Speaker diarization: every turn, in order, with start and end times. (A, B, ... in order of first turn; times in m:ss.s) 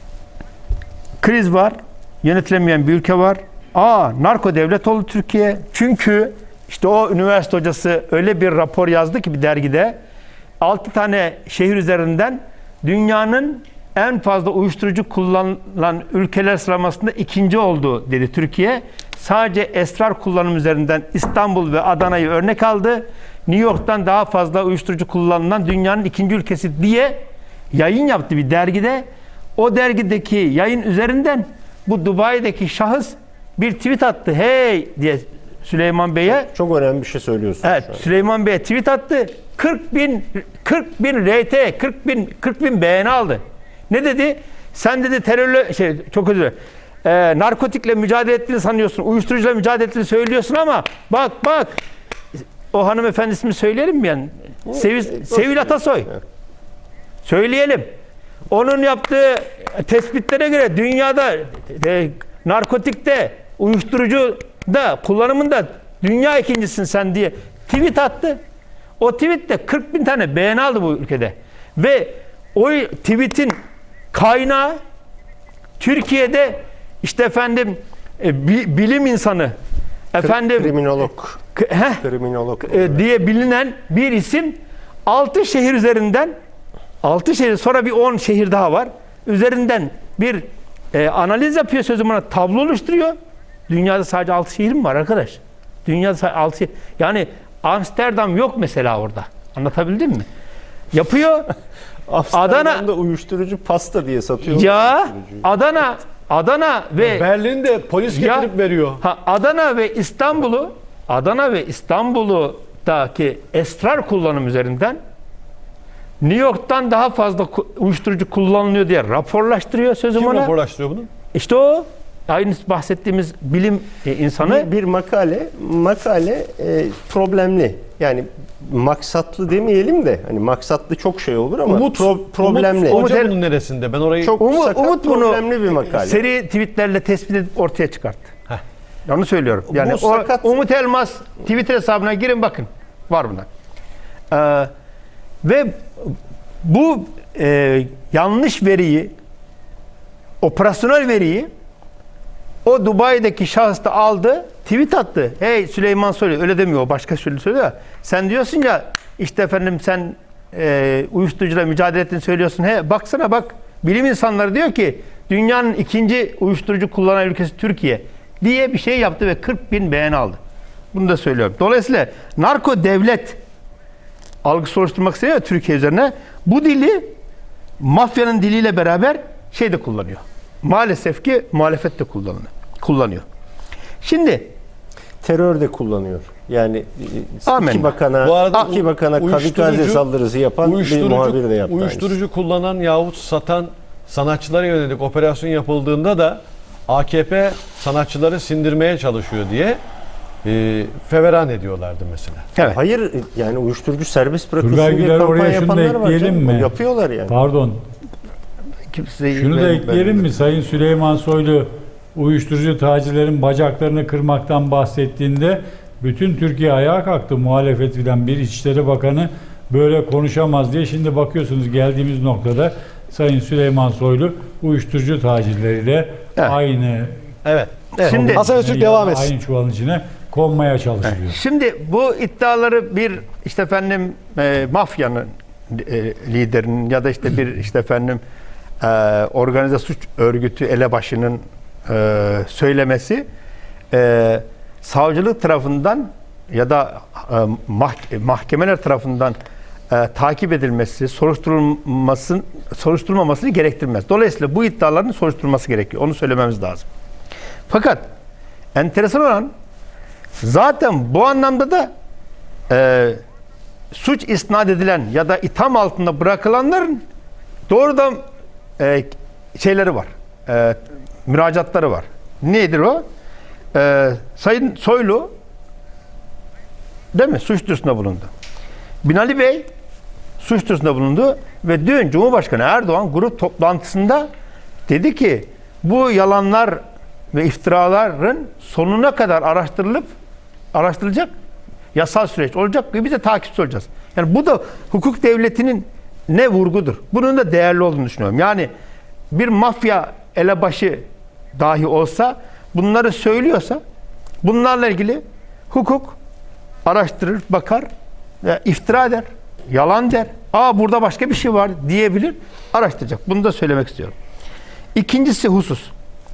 0:01.2-0:10.0 A
0:10.6-0:27.2 A
0:27.7-0:36.5 A
0:36.3-0:38.0 B
0:37.6-0:51.8 A
0:52.7-0:56.1 A
0:55.2-0:55.7 B
0:57.2-0:57.9 A
0:58.5-1:08.4 A
1:09.0-1:13.6 A
1:14.1-1:14.8 A
1:15.8-1:19.5 A
1:20.1-1:20.8 A
1:20.2-1:21.4 B
1:21.6-1:22.0 A
1:22.0-1:23.1 B
1:22.6-1:26.3 A
1:27.0-1:33.2 A
1:33.7-1:40.3 A
1:40.9-1:41.5 A
1:42.1-1:45.4 B
1:42.3-1:42.8 A
1:44.5-1:47.3 A
1:47.0-1:49.0 C
1:48.1-1:55.0 A
1:56.2-2:00.5 A
2:00.2-2:01.1 C
2:01.3-2:04.7 A
2:04.4-2:13.0 B
2:11.7-2:14.4 C
2:12.9-2:13.4 A
2:14.2-2:16.2 B
2:14.4-2:15.4 A
2:15.9-2:18.3 A
2:19.1-2:23.5 A
2:19.7-2:20.6 B
2:24.3-2:24.7 A
2:25.4-2:29.1 A
2:30.4-2:31.5 A
2:32.6-2:50.4 A
2:50.9-2:53.4 A
2:54.4-2:57.1 A
2:57.8-3:03.2 A
3:04.0-3:04.5 A
3:05.2-3:12.2 B
3:07.5-3:07.9 A
3:08.2-3:10.0 C
3:10.6-3:19.8 C
3:20.4-3:22.5 C
3:22.6-3:27.4 B
3:24.6-3:26.7 D
3:27.3-3:27.8 D
3:28.9-3:30.3 A
3:29.3-3:47.1 D
3:47.4-3:49.3 C
3:48.0-3:51.4 D
3:48.0-3:48.5 A
3:51.0-3:58.2 A
3:58.8-4:03.2 A
4:03.9-4:09.4 A
4:09.9-4:16.9 A
4:17.7-4:18.1 A
4:18.8-4:19.5 A
4:20.4-4:21.9 A
4:22.7-4:23.2 A
4:23.9-4:27.0 A
4:27.7-4:28.2 A
4:28.8-4:33.0 A
4:33.7-4:35.3 A
4:37.1-4:38.3 A
4:39.0-4:39.7 A
4:40.4-4:44.3 A
4:44.9-4:46.8 A
4:47.3-4:50.1 A
4:50.7-4:51.3 A
4:51.9-4:58.7 A
4:59.3-5:03.8 A
5:04.4-5:06.2 A
5:06.8-5:07.9 A
5:08.4-5:14.2 A
5:14.9-5:15.9 A